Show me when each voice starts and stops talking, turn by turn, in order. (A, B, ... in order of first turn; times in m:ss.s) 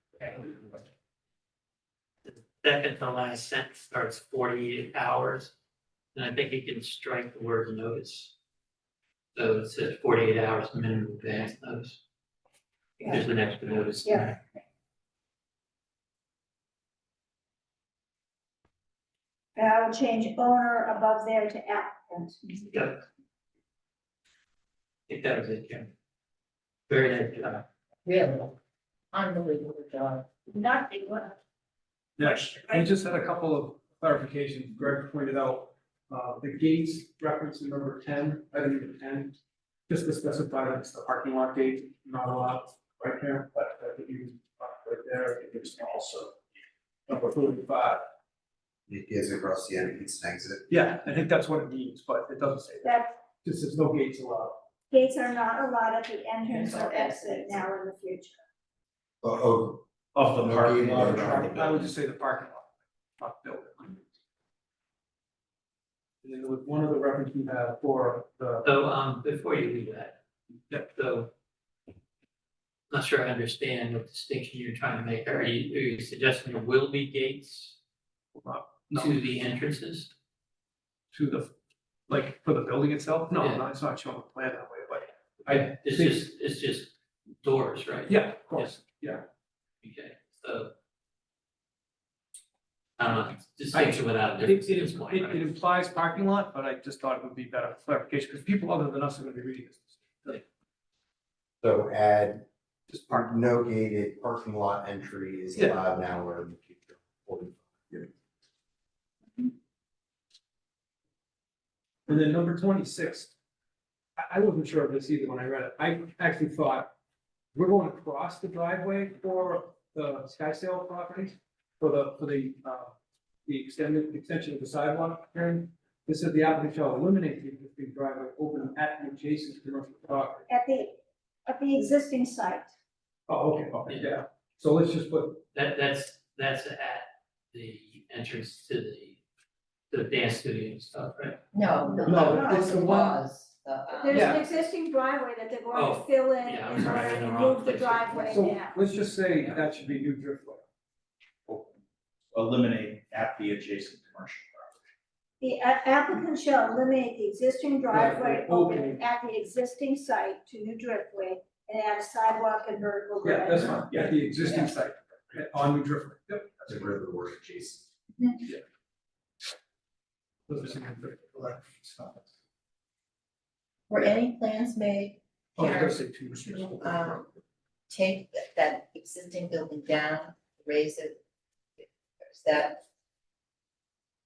0:00.2-0:00.8 A
0:02.2-0:05.5 A
0:06.1-0:08.3 A
0:09.4-0:12.0 A
0:13.0-0:14.4 A
0:14.0-0:14.3 B
0:19.6-0:22.4 B
0:22.7-0:23.0 A
0:25.1-0:25.9 A
0:26.9-0:27.7 A
0:28.0-0:28.6 C
0:29.1-0:30.3 C
0:30.5-0:31.4 B
0:32.2-0:39.4 D
0:32.2-0:32.8 B
0:39.9-0:46.4 D
0:47.1-0:48.0 D
0:48.9-0:50.7 E
0:50.7-0:52.9 D
0:52.8-0:53.2 B
0:53.4-0:54.6 D
0:54.9-0:58.4 B
0:56.6-0:57.4 C
0:59.2-0:59.8 E
1:00.2-1:01.7 F
1:00.4-1:01.9 E
1:00.9-1:04.0 D
1:06.2-1:08.7 D
1:08.6-1:10.2 A
1:10.8-1:11.3 A
1:12.9-1:17.8 A
1:18.4-1:19.2 D
1:19.0-1:20.1 A
1:21.1-1:21.5 D
1:22.1-1:26.2 D
1:23.4-1:23.6 A
1:25.5-1:28.8 A
1:28.1-1:29.2 D
1:29.8-1:30.7 A
1:33.0-1:35.6 A
1:33.7-1:40.4 D
1:41.6-1:48.1 E
1:42.9-1:43.2 D
1:45.6-1:45.8 D
1:52.1-1:53.3 D
1:54.2-1:56.9 D
1:57.5-2:03.0 D
2:03.5-2:10.5 D
2:10.5-2:12.7 B
2:13.3-2:15.4 D
2:15.5-2:19.2 A
2:19.9-2:21.4 A
2:21.5-2:24.5 C
2:22.0-2:22.9 B
2:22.0-2:23.2 D
2:24.0-2:28.8 B
2:24.1-2:24.4 D
2:25.7-2:28.4 A
2:28.3-2:30.6 D
2:29.4-2:29.7 A
2:32.3-2:34.8 F
2:35.4-2:44.0 B
2:37.9-2:39.0 D
2:43.2-2:46.9 D
2:46.7-2:47.8 E
2:48.2-2:48.4 C
2:50.5-2:52.3 D
2:53.9-2:56.0 C
2:55.6-2:57.2 D
2:56.7-2:57.3 C
2:57.9-3:01.2 C
3:01.8-3:02.8 C